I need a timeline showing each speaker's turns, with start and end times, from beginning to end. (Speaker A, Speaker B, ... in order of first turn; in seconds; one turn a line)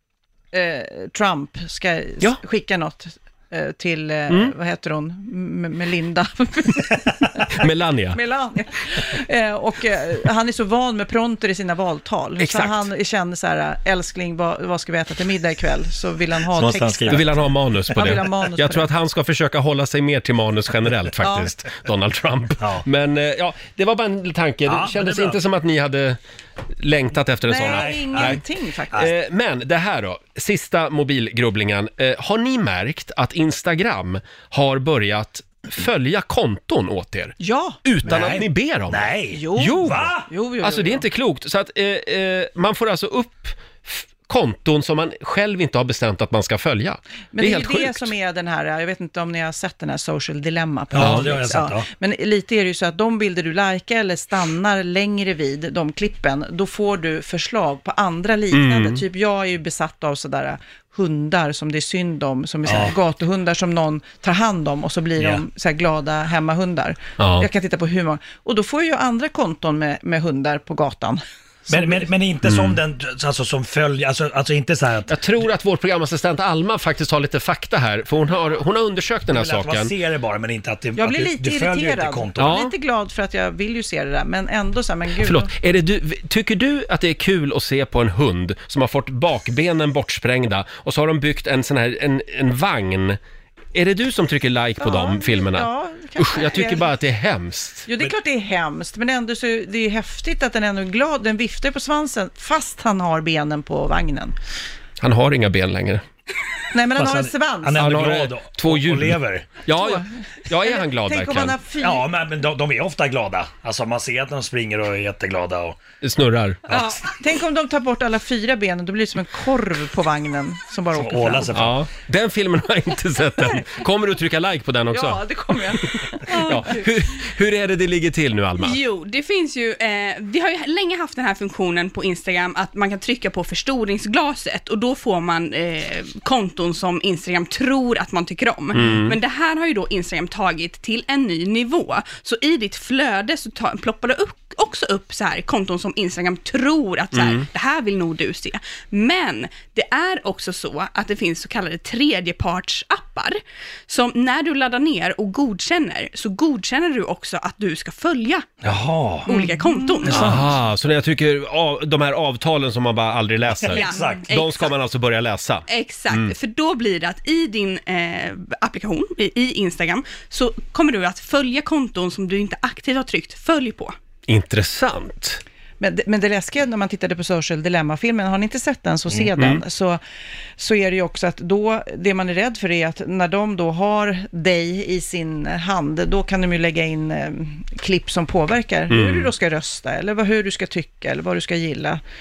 Speaker A: 0.5-18.9
Speaker B: 4.3-4.5
Speaker B: 7.5-8.2
Speaker B: 12.4-12.9
Speaker C: 16.6-17.4
Speaker B: 17.1-26.2
Speaker A: 21.2-21.5
Speaker C: 22.6-22.9
Speaker C: 24.7-25.4
Speaker B: 26.8-28.4
Speaker A: 27.5-29.1
Speaker C: 27.6-29.1
Speaker B: 28.9-48.1
Speaker A: 37.4-37.8
Speaker C: 38.0-40.3
Speaker A: 39.3-41.0
Speaker A: 47.3-72.0
Speaker C: 50.9-51.9
Speaker B: 51.0-51.3
Speaker B: 58.5-59.0
Speaker C: 62.6-63.0
Speaker C: 65.2-65.5
Speaker B: 67.2-67.5
Speaker C: 71.7-75.2
Speaker B: 72.5-72.8
Speaker B: 75.1-79.9
Speaker C: 79.3-82.6
Speaker A: 81.0-85.5
Speaker B: 82.4-82.7
Speaker B: 85.2-93.2
Speaker B: 93.7-97.9
Speaker A: 94.8-96.9
Speaker A: 97.9-104.3
Speaker B: 105.0-106.0
Speaker A: 106.7-108.0
Speaker C: 107.0-109.6
Speaker B: 107.7-111.6
Speaker A: 109.7-112.1
Speaker C: 111.8-115.8
Speaker B: 116.0-116.8
Speaker A: 116.7-121.5
Speaker C: 120.9-121.9
Speaker B: 121.5-125.2
Speaker A: 124.9-126.8
Speaker B: 126.3-128.8
Speaker D: 126.4-126.8
Speaker D: 128.6-158.5
Speaker B: 138.7-139.2
Speaker B: 147.1-147.5
Speaker C: 158.6-159.3
Speaker D: 159.3-160.2
Speaker A: 159.3-160.3
Speaker C: 160.0-160.5
Speaker B: 160.1-166.3
Speaker C: 163.6-164.3
Speaker D: 163.7-164.7
Speaker D: 165.7-173.9
Speaker B: 174.3-175.4
Speaker A: 175.8-180.0
Speaker B: 179.4-179.6
Speaker A: 180.6-192.0
Speaker B: 188.9-189.3